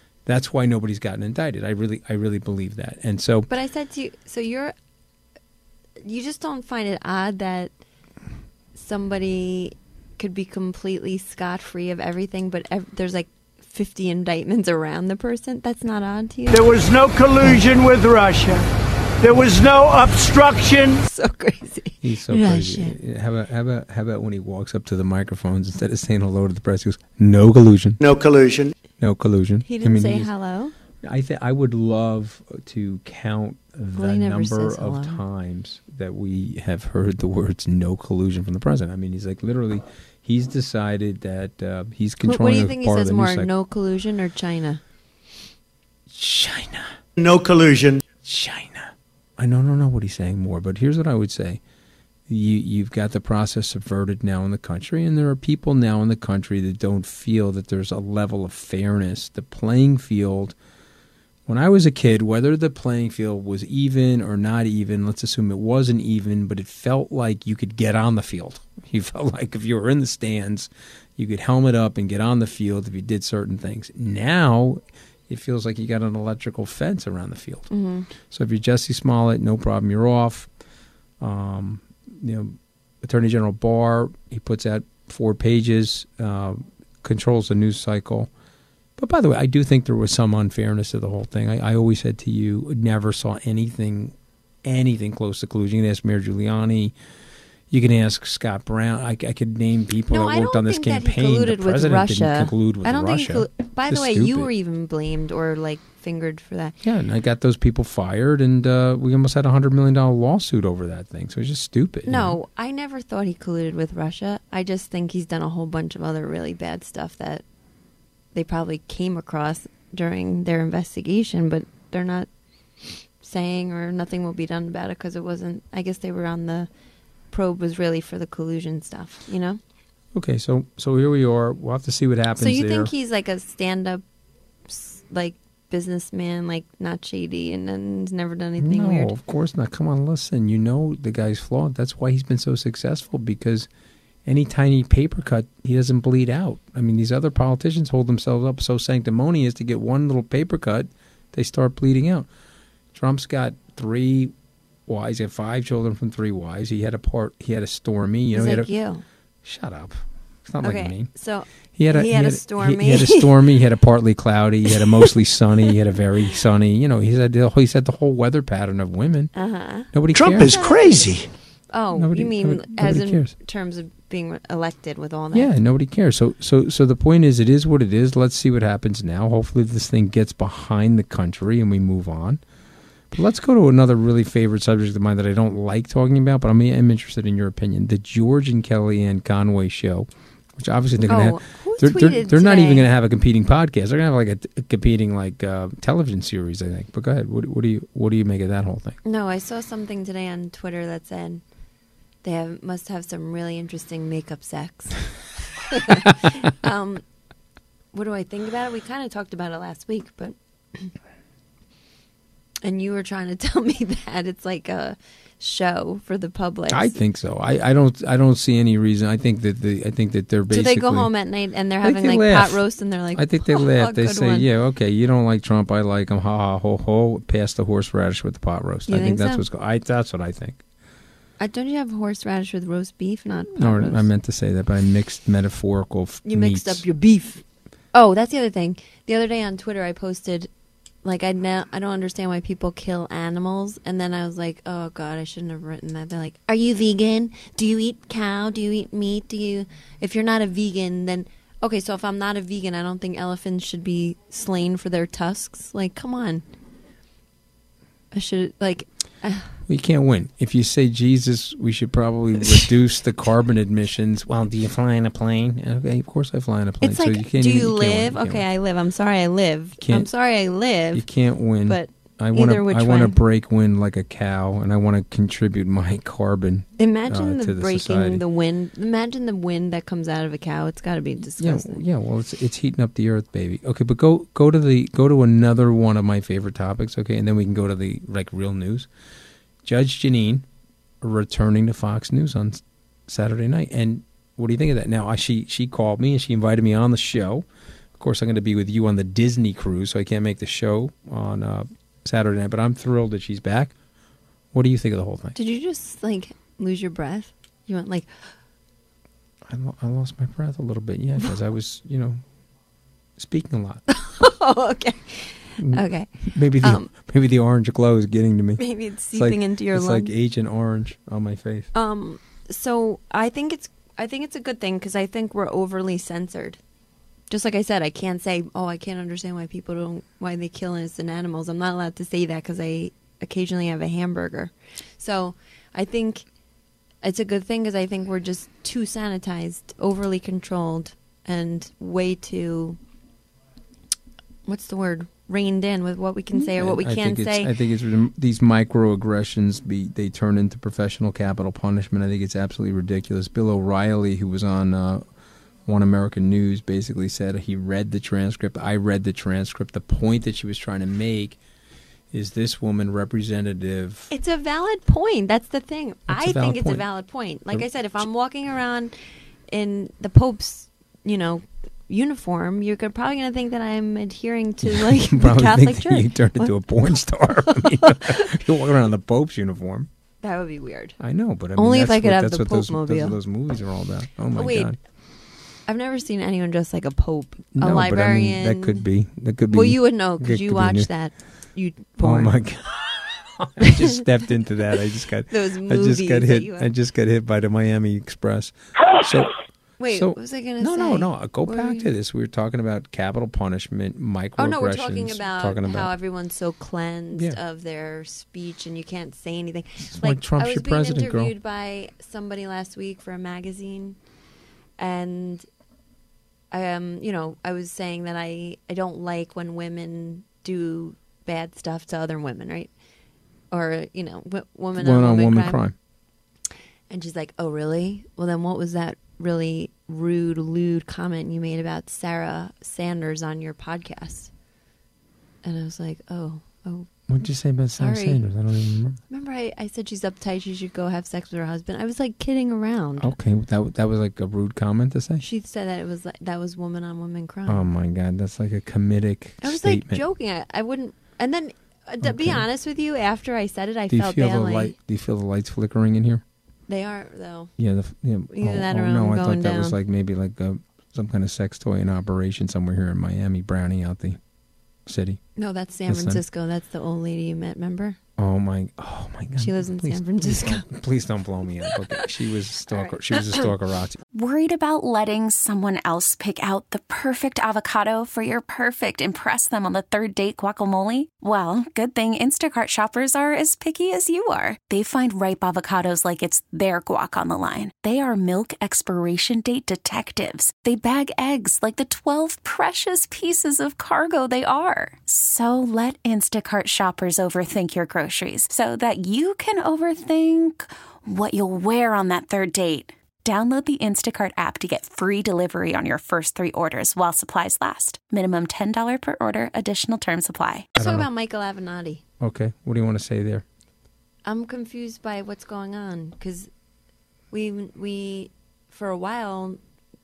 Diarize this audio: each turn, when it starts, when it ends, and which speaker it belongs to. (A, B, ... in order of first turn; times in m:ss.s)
0:00.3-0:03.5 A
0:03.5-0:04.7 B
0:06.0-0:07.8 B
0:08.8-0:16.7 B
0:16.5-0:18.7 C
0:19.2-0:21.0 C
0:21.0-0:23.0 B
0:22.0-0:28.0 A
0:28.0-0:28.6 C
0:29.0-0:30.3 A
0:29.6-0:30.7 B
0:31.0-0:43.5 A
0:34.0-0:35.2 B
0:42.2-0:44.8 B
0:46.1-0:47.0 A
0:47.2-0:48.0 C
0:48.2-0:51.6 A
0:52.3-1:00.6 A
1:01.5-1:17.7 A
1:17.7-1:18.1 B
1:18.2-1:20.5 A
1:21.2-1:28.3 A
1:29.0-1:37.0 A
1:37.7-1:44.5 A
1:40.1-1:46.8 B
1:46.8-1:52.4 A
1:52.1-1:57.4 B
1:58.3-2:02.3 B
2:03.2-2:06.7 B
2:07.3-2:09.6 B
2:10.1-2:12.9 A
2:12.4-2:14.0 B
2:14.7-2:19.1 B
2:18.6-2:23.7 A
2:24.2-2:32.3 A
2:32.9-2:34.3 A
2:34.9-2:38.7 A
2:38.3-2:39.0 B
2:39.4-2:41.1 A
2:40.6-2:43.3 B
2:41.8-2:49.3 A
2:49.4-2:55.5 B
2:49.9-2:50.6 A
2:52.0-2:53.3 A
2:55.3-3:02.4 A
3:03.1-3:19.0 A
3:11.1-3:12.9 B
3:19.0-3:21.4 B
3:22.2-3:27.0 B
3:27.9-3:30.9 B
3:32.6-3:36.9 B
3:36.7-3:41.1 A
3:40.5-3:44.5 B
3:41.8-3:50.6 A
3:48.9-3:49.4 B
3:51.4-3:54.1 B
3:53.6-3:56.8 A
3:56.3-4:00.5 B
4:01.0-4:16.4 B
4:18.1-4:19.6 B
4:19.7-4:28.4 A
4:26.8-4:31.0 B
4:29.8-4:30.1 A
4:30.9-4:38.2 A
4:31.6-4:33.2 B
4:36.8-4:41.8 B
4:41.4-4:48.9 A
4:49.6-4:50.5 A
4:51.0-4:57.5 A
4:58.0-5:03.7 A
5:04.5-5:05.4 A
5:05.4-5:08.3 B
5:09.5-5:12.2 A
5:13.2-5:13.8 A
5:13.9-5:16.9 B
5:15.6-5:21.7 A
5:18.6-5:20.1 B
5:21.7-5:26.6 B
5:27.3-5:36.3 B
5:37.0-5:42.8 B
5:44.5-5:47.5 B
5:46.3-5:55.0 A
5:55.7-6:01.4 A
6:02.1-6:04.1 A
6:04.1-6:09.0 B
6:06.1-6:06.9 A
6:07.5-6:08.0 A
6:09.5-6:16.6 B
6:14.6-6:19.9 A
6:17.5-6:18.4 B
6:20.2-6:21.0 B
6:21.0-6:24.8 A
6:21.6-6:23.2 B
6:24.3-6:24.8 B
6:25.7-6:28.8 B
6:27.5-6:30.9 A
6:29.5-6:32.3 B
6:32.0-6:39.3 A
6:35.3-6:36.7 B
6:39.8-6:41.9 B
6:39.9-6:45.9 A
6:44.4-6:54.0 B
6:49.8-6:51.3 A
6:54.8-6:55.5 B
6:56.5-7:02.7 B
7:03.5-7:05.6 B
7:04.8-7:05.8 A
7:06.9-7:14.3 B
7:15.4-7:16.9 B
7:17.1-7:19.0 A
7:17.8-7:18.2 B
7:19.1-7:23.1 B
7:23.0-7:25.2 A
7:25.2-7:27.7 B
7:27.5-7:30.0 A
7:29.4-7:34.8 B
7:32.0-7:32.4 A
7:33.9-7:36.2 A
7:36.7-7:37.5 B
7:37.6-7:44.2 A
7:38.3-7:39.8 B
7:44.9-7:45.2 A
7:45.4-7:48.0 B
7:45.9-7:46.2 A
7:48.2-7:54.0 A
7:49.4-7:50.7 B
7:54.1-8:30.7 D
8:30.8-8:32.0 B
8:30.8-8:31.1 A
8:32.2-8:33.4 A
8:34.2-8:36.5 B
8:37.3-8:39.6 B